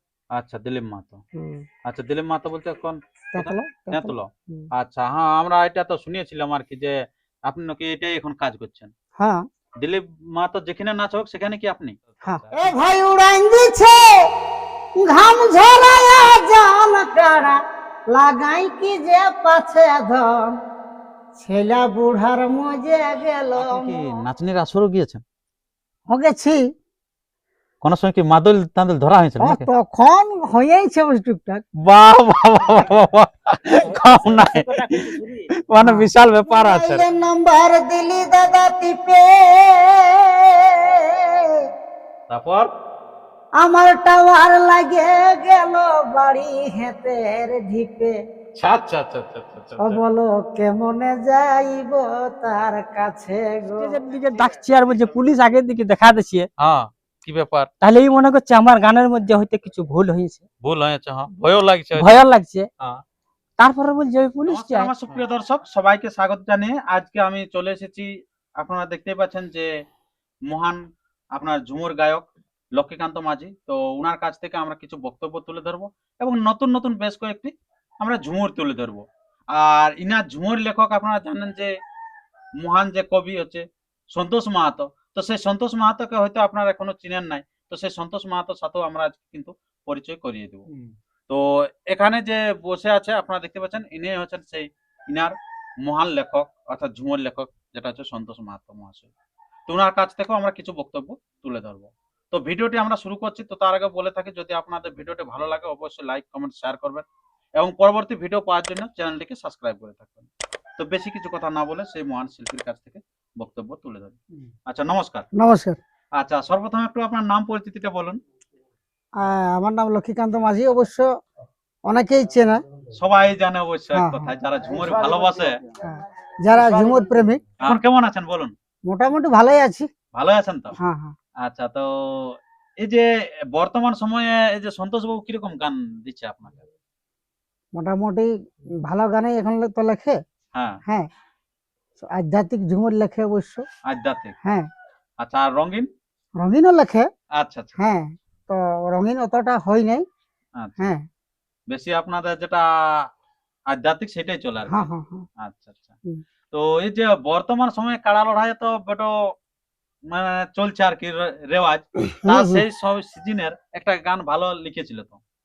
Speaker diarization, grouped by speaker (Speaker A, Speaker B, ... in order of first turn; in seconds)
Speaker A: 0.4-1.2, 1.9-8.9, 9.8-12.8, 23.6-25.2, 27.8-29.7, 31.9-34.9, 35.7-37.0, 42.3-42.7, 48.5-50.0, 56.6-57.7, 60.6-62.2, 64.5-69.7, 70.5-70.8, 71.3-81.7, 82.6-90.7, 91.3-99.1, 99.7-107.0, 107.6-115.3, 116.2-118.2, 122.9-125.6, 127.6-128.5, 130.1-130.7, 131.4-136.6, 140.5-140.8, 143.9-144.3, 145.2-145.9, 147.4-147.8, 150.6-150.9, 151.7-152.6, 153.7-154.8, 155.4-155.9, 156.5-159.1, 160.1-165.2
Speaker B: 1.4-1.6, 3.3-4.7, 9.2-9.4, 12.2-14.1, 15.0-17.6, 18.1-20.5, 21.3-23.9, 26.1-26.6, 29.4-31.6, 35.8-41.2, 43.6-48.1, 49.8-54.0, 115.3-115.8, 119.2-121.1, 121.9-122.6, 123.9-124.3, 125.8-127.8, 128.9-129.9, 130.8-131.1, 137.8-138.3, 138.8-140.2, 142.0-143.6, 146.4-147.1, 147.8-150.0, 150.8-151.0, 154.7-155.2, 162.0-162.6
Speaker C: 33.8-35.5, 53.8-56.5, 57.8-60.4, 62.0-62.7, 63.6-64.9